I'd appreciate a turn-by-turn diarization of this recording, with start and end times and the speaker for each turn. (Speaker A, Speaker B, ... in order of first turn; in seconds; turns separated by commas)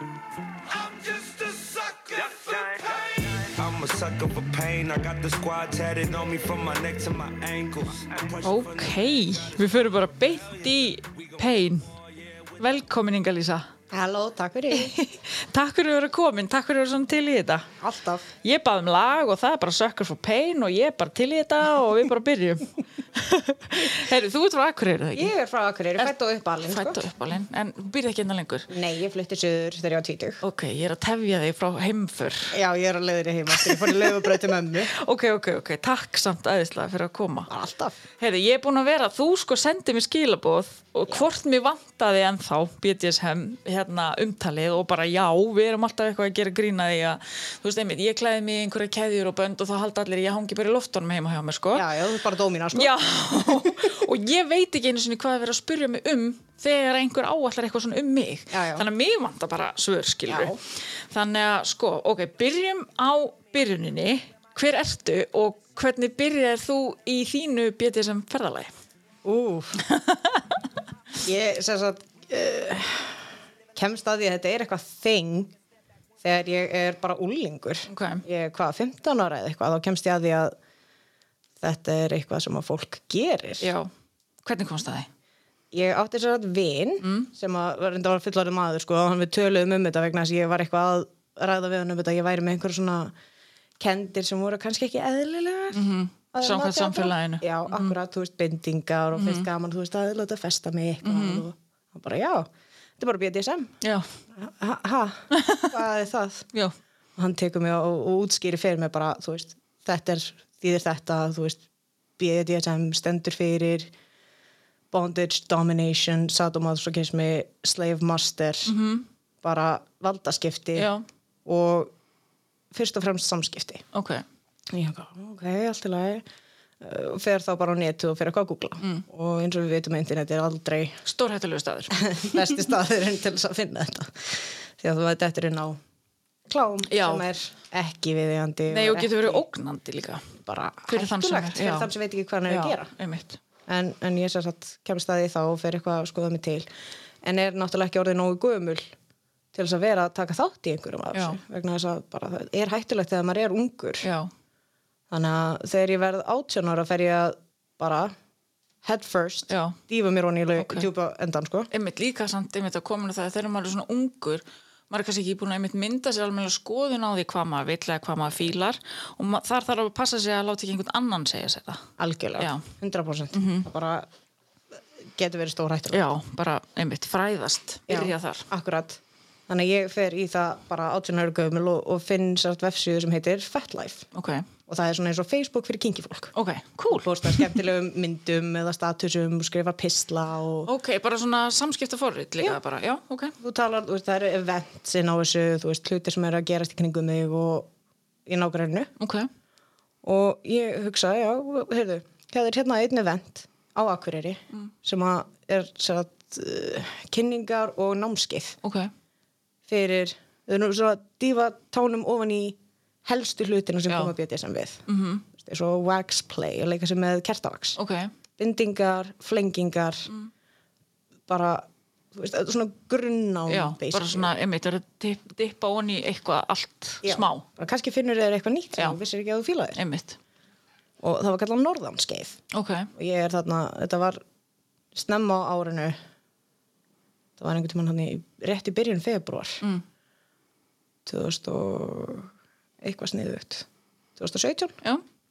Speaker A: 0.7-11.4, Speaker B: 8.4-11.9, Speaker A: 12.3-12.6, Speaker B: 12.6-13.7, Speaker C: 13.9-14.9, Speaker B: 14.7-17.7, Speaker C: 17.8-18.3, Speaker B: 18.4-25.3, Speaker C: 25.1-27.0, Speaker B: 26.6-28.7, Speaker C: 28.7-30.4, Speaker B: 30.4-32.5, Speaker C: 32.5-34.9, Speaker B: 33.5-37.5, Speaker C: 37.5-38.0, Speaker B: 38.2-51.9, Speaker C: 51.7-54.0, Speaker B: 52.7-68.7, Speaker C: 58.5-58.9, Speaker C: 60.3-60.5, Speaker C: 69.2-69.8, Speaker B: 69.8-70.6, Speaker C: 71.2-75.5, Speaker C: 76.2-80.5, Speaker B: 77.9-78.2, Speaker C: 81.6-83.7, Speaker B: 83.6-83.9, Speaker B: 84.4-85.1, Speaker C: 85.7-93.1, Speaker B: 87.0-87.3, Speaker C: 93.8-103.7, Speaker B: 95.7-97.9, Speaker B: 99.1-99.5, Speaker B: 101.0-101.4, Speaker B: 103.8-104.1, Speaker C: 104.3-106.5, Speaker B: 105.3-105.7, Speaker C: 107.2-111.6, Speaker C: 112.2-113.9, Speaker C: 114.9-118.8, Speaker B: 118.7-119.0, Speaker C: 119.4-120.9, Speaker B: 120.7-121.0, Speaker C: 121.4-121.9, Speaker C: 122.7-123.8, Speaker B: 123.9-124.2, Speaker C: 124.7-126.2, Speaker C: 126.8-131.0, Speaker B: 131.0-132.4, Speaker C: 131.9-135.8, Speaker C: 136.5-139.4, Speaker B: 136.9-137.3, Speaker B: 138.7-140.3, Speaker C: 140.4-142.9, Speaker B: 140.9-141.9, Speaker B: 142.5-143.4, Speaker C: 143.7-146.7, Speaker C: 147.2-148.9, Speaker C: 149.5-154.1, Speaker B: 151.1-151.4, Speaker B: 154.0-154.3, Speaker C: 155.1-158.1, Speaker C: 158.8-161.7, Speaker B: 159.5-159.8, Speaker B: 160.6-160.9, Speaker B: 161.7-171.8, Speaker C: 172.0-174.1, Speaker B: 172.4-172.7, Speaker B: 173.3-173.7, Speaker C: 175.0-176.0, Speaker B: 175.9-178.5, Speaker C: 177.9-184.1, Speaker B: 184.1-184.5, Speaker C: 184.7-186.3, Speaker B: 186.3-187.6, Speaker C: 186.9-190.7, Speaker B: 190.6-193.3, Speaker C: 193.4-197.7, Speaker C: 198.2-198.9, Speaker B: 199.0-199.3, Speaker C: 200.0-208.6, Speaker B: 208.6-208.9, Speaker C: 209.7-217.8, Speaker B: 214.9-215.2, Speaker B: 217.8-218.1, Speaker C: 218.4-220.1, Speaker C: 221.3-224.3, Speaker B: 223.5-227.5, Speaker C: 227.0-229.8, Speaker B: 229.8-230.2, Speaker C: 231.0-232.4, Speaker B: 232.5-232.9, Speaker C: 232.9-234.2, Speaker C: 234.9-236.0, Speaker C: 237.4-239.6, Speaker C: 241.1-242.3, Speaker C: 242.8-244.8